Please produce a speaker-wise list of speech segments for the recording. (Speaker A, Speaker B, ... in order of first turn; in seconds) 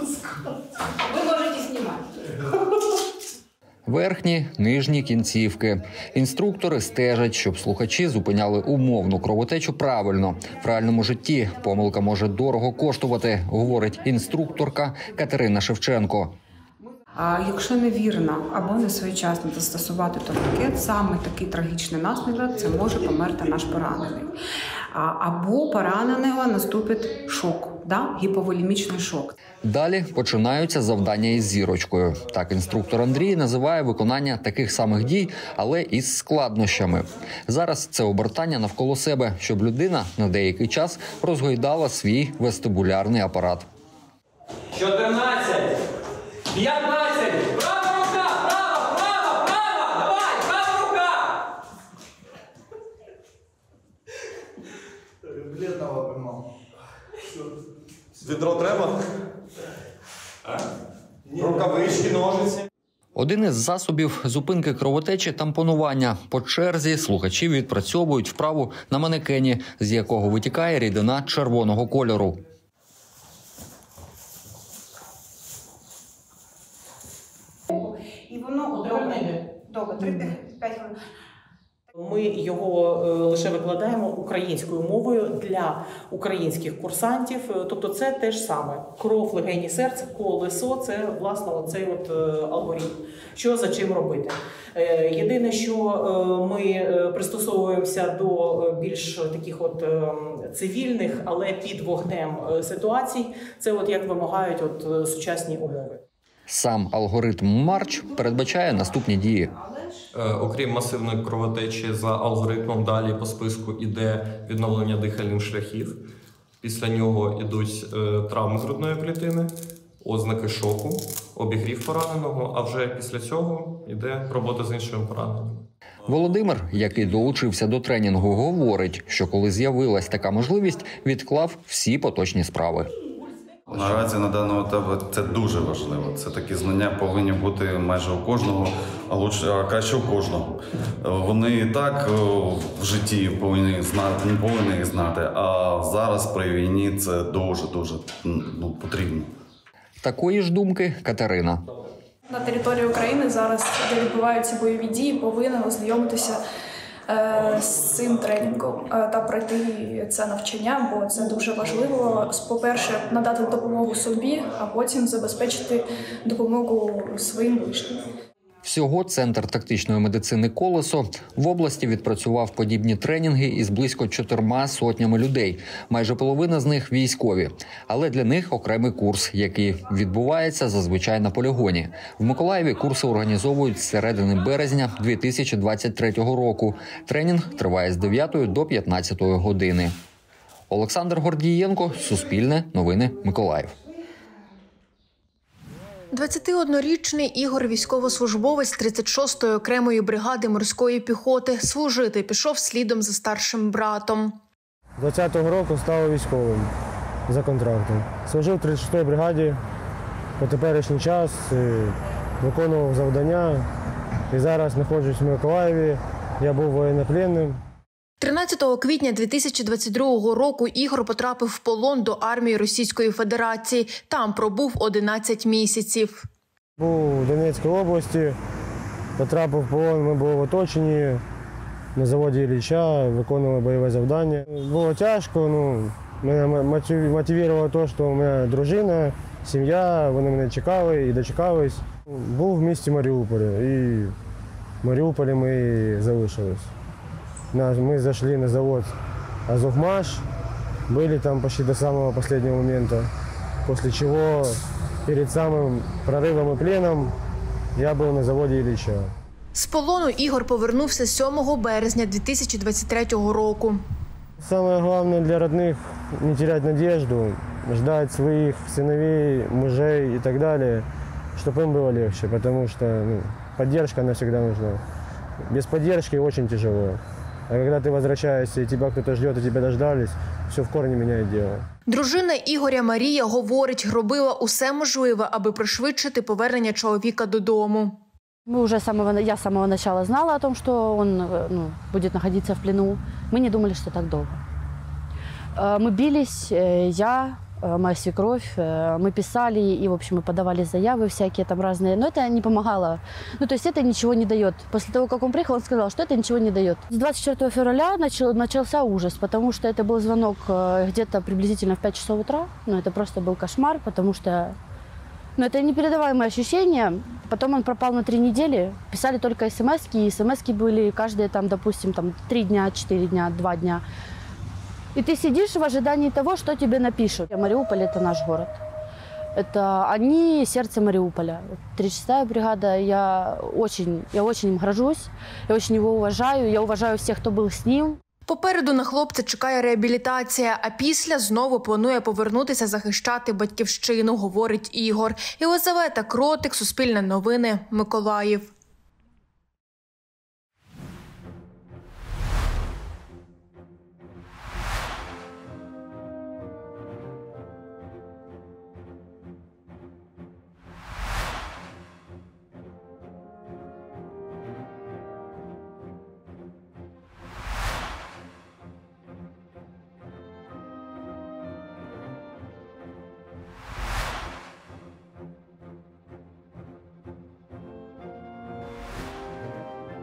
Speaker A: 3.9-16.4, 29.6-43.7, 63.2-72.4, 106.5-109.5, 126.1-132.9, 133.7-134.1, 150.0-151.6, 168.6-189.9, 190.7-193.7
Speaker B: 17.2-24.3, 25.0-29.3
Speaker C: 78.8-79.3, 82.0-106.0
Speaker D: 110.1-116.0, 116.6-125.6
Speaker E: 133.7-149.3
Speaker F: 152.3-156.4, 157.1-168.1
Speaker G: 196.1-204.3, 218.2-226.2, 259.6-263.8, 281.9-288.0, 338.3-348.5
Speaker H: 205.0-206.7, 207.3-209.6, 210.4-213.6, 214.3-217.6, 226.8-228.3, 229.2-231.2, 232.0-241.8, 242.3-244.1, 244.8-246.7, 247.5-248.9, 249.5-250.2, 250.9-253.1, 253.7-254.5, 255.1-257.1, 257.8-259.1, 264.4-270.8, 271.4-274.8, 275.5-277.0, 277.5-281.6
Speaker I: 288.5-294.4, 295.6-314.6, 315.4-323.8, 324.9-328.6, 329.4-338.0